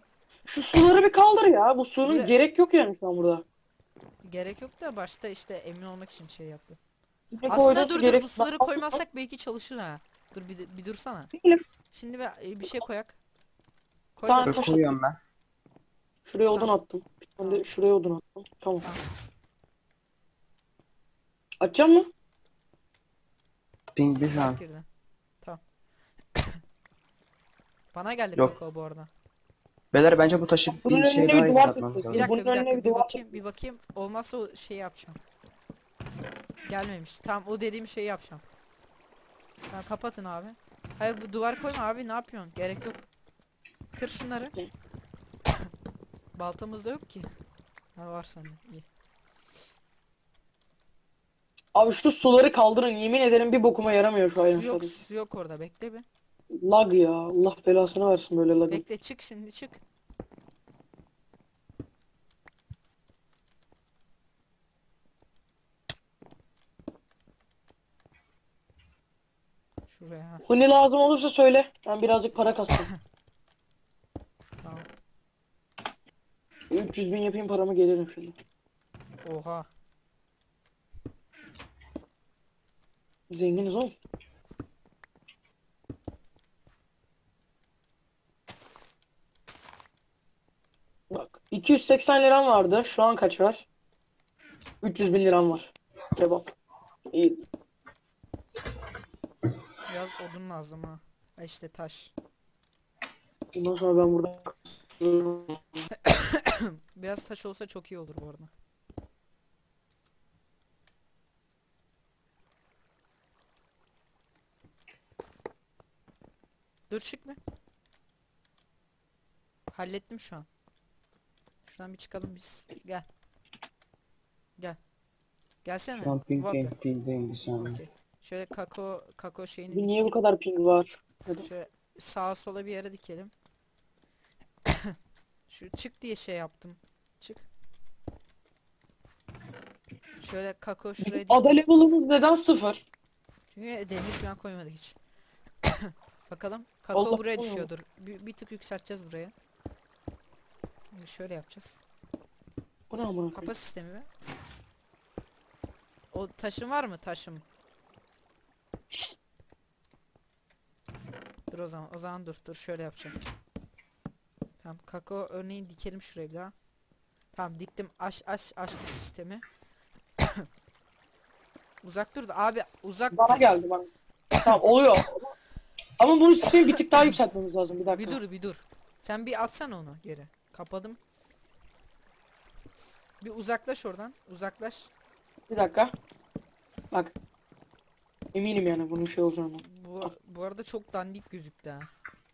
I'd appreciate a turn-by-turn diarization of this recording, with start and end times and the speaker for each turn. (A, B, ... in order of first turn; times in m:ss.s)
0:00.5-0:03.4 A
0:02.0-0:02.3 B
0:04.2-0:06.8 B
0:07.3-0:09.0 A
0:07.5-0:11.3 B
0:11.3-0:11.6 A
0:11.9-0:13.2 B
0:14.2-0:14.6 B
0:14.3-0:14.8 A
0:14.4-0:15.2 C
0:16.3-0:18.8 A
0:21.6-0:22.1 A
0:24.0-0:24.6 C
0:24.3-0:24.9 B
0:26.4-0:26.6 B
0:27.9-0:29.1 B
0:29.9-0:32.3 C
0:30.7-0:33.3 A
0:32.1-0:35.2 B
0:36.7-0:38.4 B
0:39.7-0:43.1 B
0:43.9-0:44.6 B
0:46.4-0:47.3 B
0:48.0-0:48.9 B
0:51.8-0:55.0 A
0:54.4-0:56.0 B
0:56.5-0:58.8 A
0:58.7-0:59.8 B
1:09.9-1:10.5 B
1:10.5-1:12.9 A
1:14.6-1:14.9 B
1:16.7-1:18.4 A
1:19.2-1:19.7 B
1:23.3-1:23.9 A
1:31.1-1:33.7 A
1:34.8-1:36.5 A
1:37.1-1:37.4 A
1:39.9-1:42.1 B
1:43.5-1:45.6 A
1:46.0-1:48.5 B
1:56.9-1:57.4 B
1:59.7-2:00.5 B
2:01.6-2:03.1 B
2:05.6-2:06.7 B
2:06.0-2:07.8 C
2:07.6-2:10.1 B
2:09.7-2:11.5 A
2:11.4-2:13.3 B
2:14.7-2:15.0 B
2:15.5-2:17.5 B
2:20.2-2:21.6 B
2:21.0-2:22.8 A
2:23.5-2:25.0 B
2:25.6-2:29.3 B
2:26.9-2:27.7 A
2:30.9-2:31.8 B
2:32.9-2:33.5 A
2:33.3-2:34.1 B
2:36.1-2:37.4 B
2:41.5-2:43.2 B
2:44.6-2:46.5 B
2:47.3-2:49.4 B
2:51.8-2:53.4 B
2:53.1-2:53.9 A
2:54.4-2:55.3 A
2:56.0-2:58.2 A
2:58.0-3:01.0 B
3:03.2-3:04.9 B
3:05.5-3:05.9 A
3:08.3-3:10.1 A
3:09.6-3:11.9 B